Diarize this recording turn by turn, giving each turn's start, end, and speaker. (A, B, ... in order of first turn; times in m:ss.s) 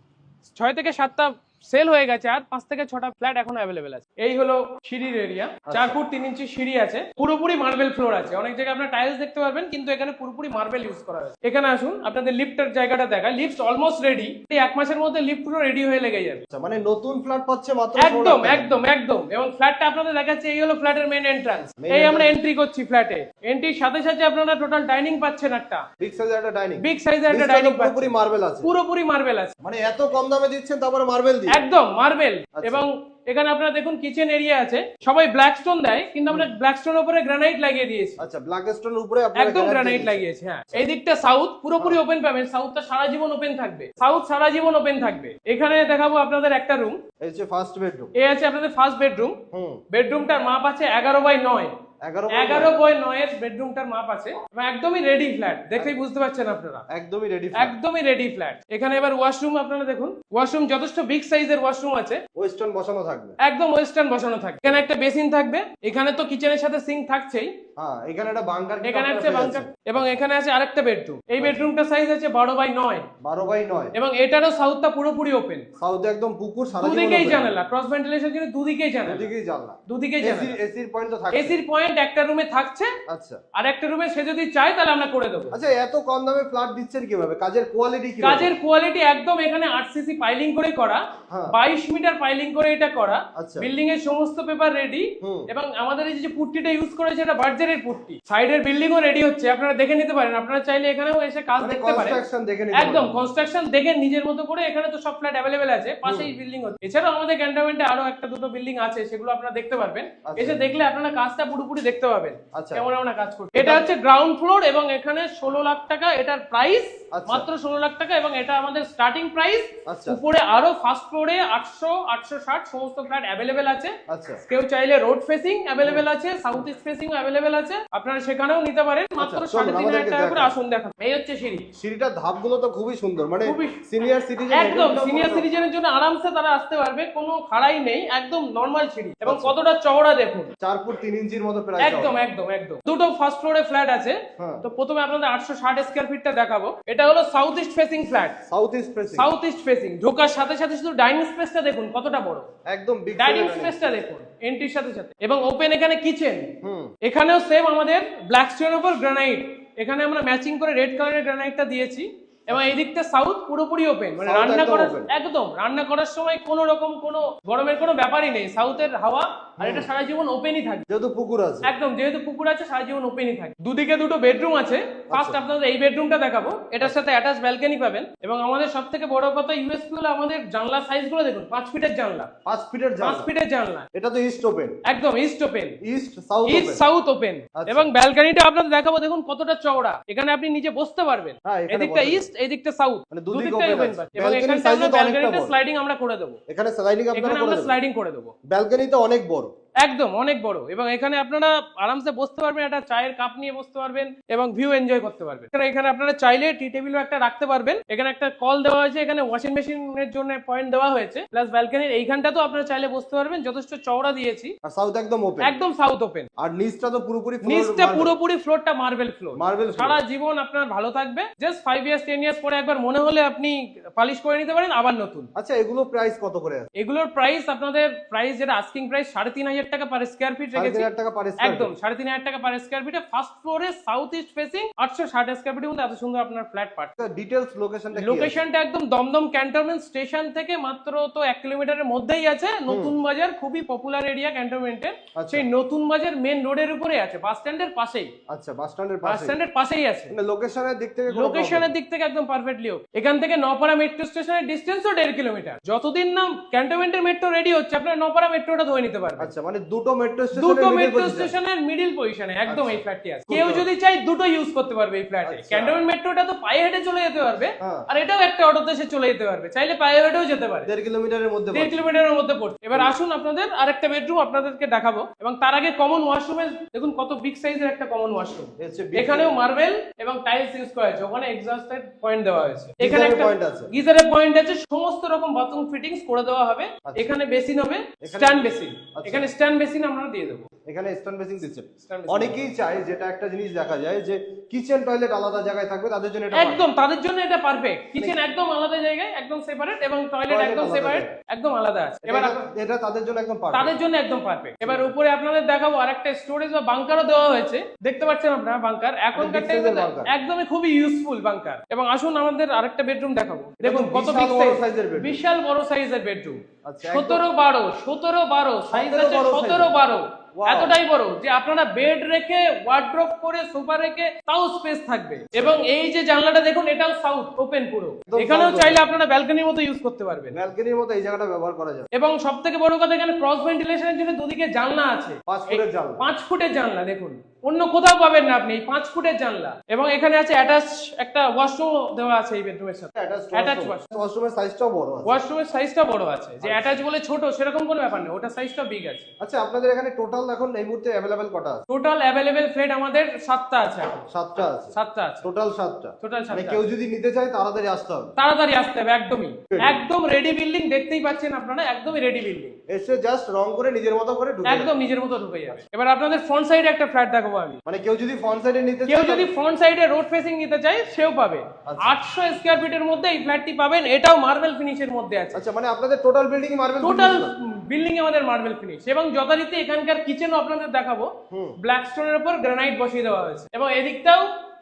0:00.5-0:16.4 A
0:05.7-0:06.0 B
0:16.5-0:18.7 B
0:18.0-0:25.8 A
0:21.8-0:22.3 B
0:26.0-0:28.7 B
0:26.8-0:28.1 A
0:28.6-0:29.5 A
0:29.6-0:31.6 B
0:31.5-0:38.2 A
0:32.6-0:32.8 B
0:38.2-0:40.2 B
0:39.3-0:47.0 A
0:47.2-0:48.1 B
0:48.1-0:49.4 A
0:49.5-0:49.8 B
0:49.9-0:51.7 A
0:52.0-0:52.7 B
0:52.3-0:56.8 A
0:56.9-0:57.8 B
0:57.5-1:02.2 A
1:02.4-1:03.4 B
1:03.4-1:07.5 A
1:07.8-1:10.2 B
1:08.8-1:13.0 A
1:13.2-1:14.0 B
1:13.9-1:15.7 A
1:15.8-1:17.5 B
1:16.8-1:19.3 A
1:19.0-1:21.6 B
1:19.9-1:20.6 A
1:21.3-1:22.9 A
1:23.1-1:23.4 B
1:23.5-1:25.6 A
1:25.5-1:28.5 B
1:28.2-1:42.2 A
1:31.3-1:31.6 B
1:33.4-1:33.7 B
1:35.2-1:35.5 B
1:41.6-1:43.2 B
1:42.7-2:11.7 A
1:46.0-1:46.3 B
1:50.2-1:50.6 B
1:52.5-1:52.8 B
1:53.6-1:53.9 B
1:57.1-1:57.5 B
1:59.8-2:00.2 B
2:04.1-2:04.4 B
2:09.2-2:10.5 B
2:11.8-2:15.5 B
2:13.4-2:13.9 A
2:14.5-2:20.5 A
2:19.2-2:19.6 B
2:20.6-2:22.2 B
2:21.8-2:28.4 A
2:24.4-2:24.6 B
2:28.4-2:29.3 B
2:29.1-2:32.5 A
2:32.6-2:34.0 B
2:33.2-2:36.5 A
2:36.6-2:36.9 B
2:37.0-2:50.8 A
2:42.5-2:42.8 B
2:44.2-2:45.1 B
2:49.6-2:49.9 B
2:50.9-2:51.7 B
2:51.6-3:02.3 A
2:55.1-2:55.4 B
3:02.4-3:03.3 B
3:03.0-3:03.9 A
3:03.9-3:04.8 B
3:04.8-3:05.8 A
3:05.8-3:06.8 B
3:06.4-3:16.4 A
3:07.6-3:07.9 B
3:11.4-3:12.3 B
3:13.1-3:15.6 B
3:16.5-3:17.7 B
3:17.1-3:18.3 A
3:18.5-3:19.5 B
3:19.8-3:34.5 A
3:34.6-3:35.5 B
3:35.4-3:36.3 A
3:36.4-3:38.1 B
3:37.4-3:45.3 A
3:39.4-3:40.0 B
3:45.3-3:46.7 B
3:46.8-3:50.9 A
3:50.6-3:51.7 B
3:51.4-3:56.9 A
3:57.0-3:58.4 B
3:57.9-4:08.1 A
4:02.7-4:02.9 B
4:05.1-4:05.4 B
4:08.3-4:09.4 B
4:09.0-4:10.1 A
4:10.1-4:11.7 B
4:11.1-4:19.3 A
4:19.2-4:21.3 B
4:20.4-4:30.7 A
4:22.5-4:23.7 B
4:25.2-4:25.8 B
4:27.6-4:27.8 B
4:30.6-4:31.8 B
4:31.5-4:50.5 A
4:38.6-4:39.3 B
4:42.8-4:43.7 B
4:46.9-4:47.1 B
4:48.0-4:49.3 B
4:50.6-4:56.6 B
4:51.8-4:52.4 A
4:56.3-5:02.4 A
5:00.3-5:01.1 B
5:02.0-5:03.8 B
5:03.5-5:30.4 A
5:04.6-5:04.9 B
5:09.1-5:10.1 B
5:13.6-5:15.2 B
5:16.6-5:17.2 B
5:18.7-5:19.7 B
5:20.3-5:20.8 B
5:25.3-5:25.6 B
5:28.1-5:28.8 B
5:30.3-5:31.9 B
5:31.9-5:43.8 A
5:35.3-5:36.0 B
5:42.9-5:45.2 B
5:45.0-5:49.0 A
5:46.4-5:46.7 B
5:49.2-5:51.6 B
5:51.7-5:54.1 A
5:54.1-5:58.1 B
5:54.7-5:55.2 A
5:56.0-5:56.7 A
5:58.2-6:02.6 A
5:59.5-5:59.8 B
6:02.7-6:04.7 B
6:04.4-6:07.6 A
6:07.6-6:09.3 B
6:08.8-6:15.4 A
6:11.6-6:12.0 B
6:15.3-6:17.3 B
6:16.8-6:24.3 A
6:21.3-6:21.6 B